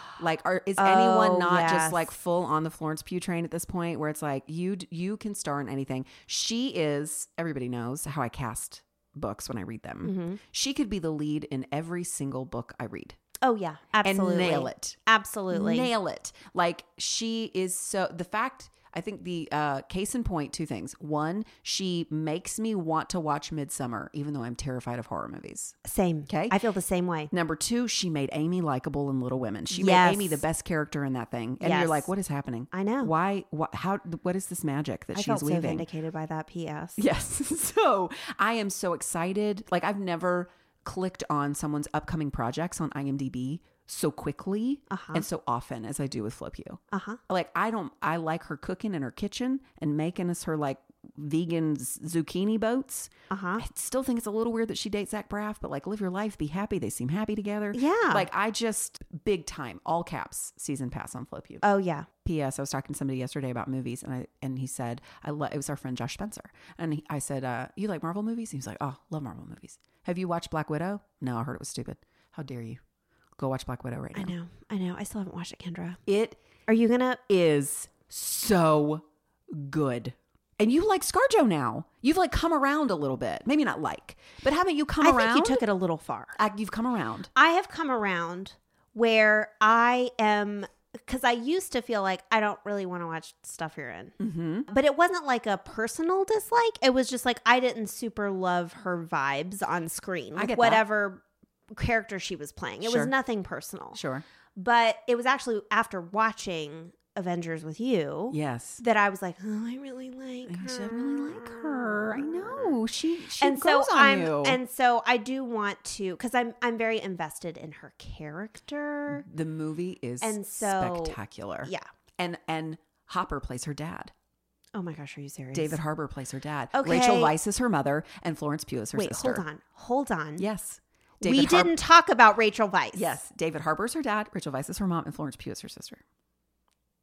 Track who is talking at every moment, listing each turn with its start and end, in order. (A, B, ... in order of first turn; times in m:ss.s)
0:00.2-0:13.2 A
0:00.8-0:02.1 B
0:10.0-0:10.4 B
0:13.4-0:15.9 B
0:14.0-0:15.0 A
0:15.5-0:25.8 A
0:25.8-0:27.3 B
0:26.3-0:26.6 A
0:27.3-0:35.9 A
0:29.7-0:30.4 B
0:31.6-0:32.1 B
0:32.7-0:33.1 B
0:35.1-0:37.0 B
0:37.0-1:01.6 A
0:44.9-0:45.2 B
0:46.9-0:47.2 B
0:53.3-0:53.6 B
0:57.7-0:58.3 B
1:01.6-1:02.1 B
1:02.2-1:12.8 A
1:13.4-1:14.3 A
1:14.1-1:16.0 B
1:16.1-1:16.4 A
1:16.7-1:17.2 B
1:17.3-1:25.6 A
1:25.0-1:26.4 B
1:26.4-1:27.3 A
1:27.3-1:34.2 B
1:34.2-1:34.7 A
1:34.7-1:44.0 B
1:40.4-1:40.8 A
1:42.8-1:43.1 A
1:43.9-1:44.2 A
1:44.6-1:52.7 B
1:48.3-1:48.8 A
1:50.5-1:54.6 A
1:53.4-1:59.2 B
1:59.1-2:04.1 A
2:00.2-2:01.8 B
2:04.7-2:05.8 B
2:05.5-2:09.4 A
2:06.7-2:07.3 B
2:08.9-2:10.4 B
2:10.4-2:11.7 A
2:11.2-2:13.1 B
2:12.9-2:16.0 A